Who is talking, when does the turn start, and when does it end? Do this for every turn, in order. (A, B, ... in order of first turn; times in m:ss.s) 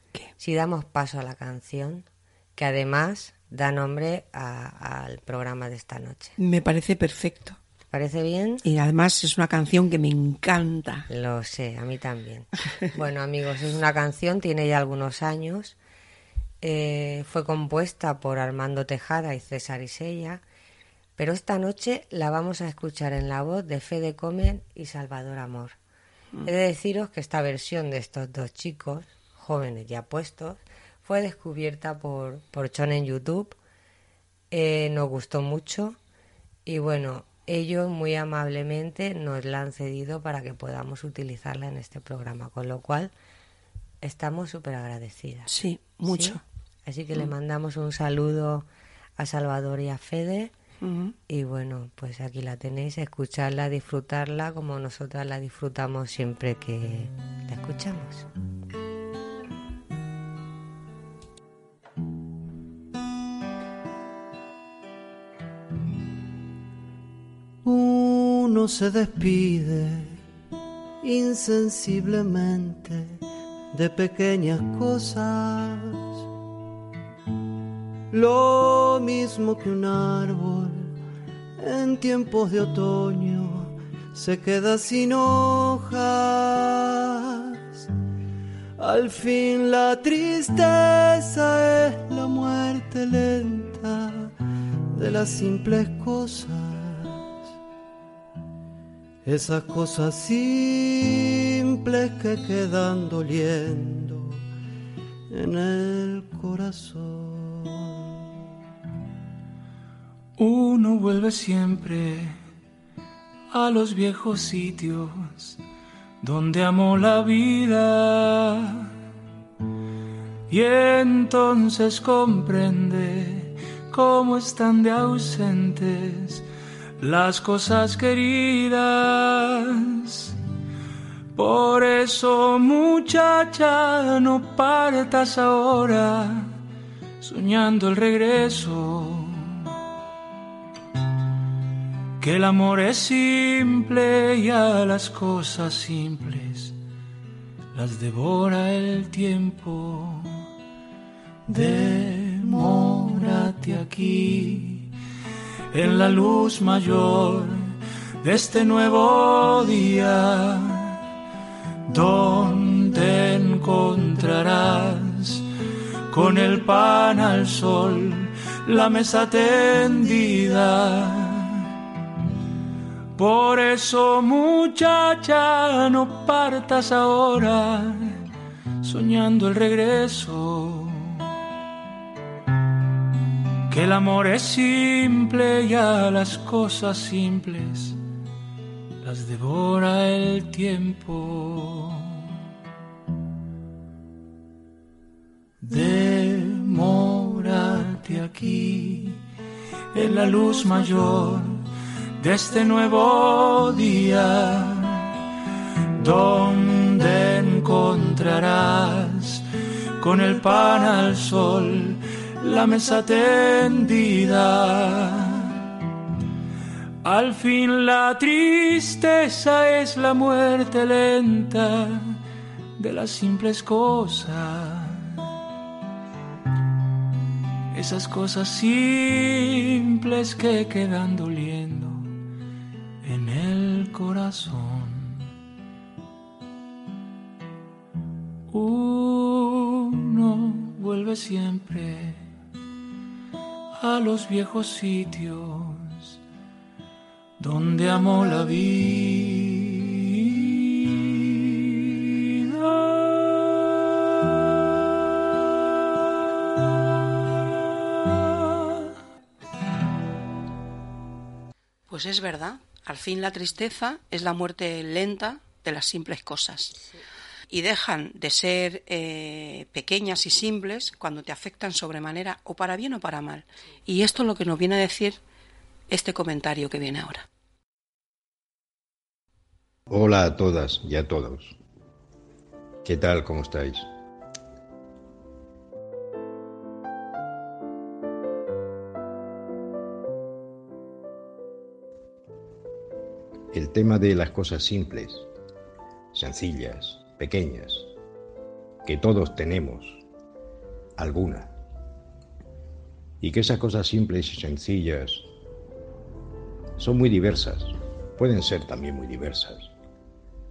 0:00.4-0:06.3 A
0:06.4-0:07.6 B
0:07.9-0:08.6 A
0:08.6-0:11.1 B
0:11.1-0:15.8 A
0:16.6-0:20.4 A
0:21.2-0:25.8 A
0:26.4-0:33.6 A
0:34.5-0:36.0 A
0:36.6-0:43.1 A
0:44.0-0:45.5 A
0:45.4-0:46.4 B
0:46.0-0:50.5 A
0:50.8-0:51.2 B
0:51.3-0:58.3 A
1:07.6-1:10.2 C
1:11.0-1:13.2 C
1:13.7-1:16.2 C
1:18.1-1:20.9 C
1:21.6-1:27.9 C
1:28.8-1:34.3 C
1:35.0-1:37.4 C
1:39.2-1:44.4 C
1:45.3-1:48.2 C
1:50.4-1:52.4 D
1:53.5-1:55.6 D
1:56.2-1:58.9 D
2:00.5-2:06.4 D
2:07.0-2:10.3 D
2:11.3-2:16.6 D
2:17.2-2:19.6 D
2:22.2-2:26.8 D
2:27.7-2:30.4 D
2:31.5-2:34.9 D
2:31.5-2:33.6 C
2:35.7-2:41.0 D
2:41.9-2:45.4 D
2:46.1-2:51.7 D
2:53.2-2:58.2 D
2:58.8-3:01.3 D
3:03.7-3:08.0 D
3:09.0-3:12.2 D
3:15.6-3:19.2 D
3:19.9-3:21.6 D
3:22.2-3:25.1 D
3:26.0-3:29.4 D
3:30.0-3:35.6 D
3:37.0-3:42.2 D
3:42.8-3:45.2 D
3:47.7-3:52.1 D
3:53.0-3:55.3 D
3:58.5-4:02.3 D
4:03.8-4:06.2 D
4:07.4-4:11.5 D
4:12.5-4:13.1 D
4:21.9-4:26.8 B
4:27.5-4:35.2 B
4:35.9-4:37.2 B
4:39.9-4:41.6 E
4:42.8-4:43.9 E
4:53.5-4:55.3 E
4:56.1-4:57.9 E
4:58.8-5:00.0 E
5:01.0-5:01.5 E
5:03.2-5:05.3 E
5:06.8-5:09.7 E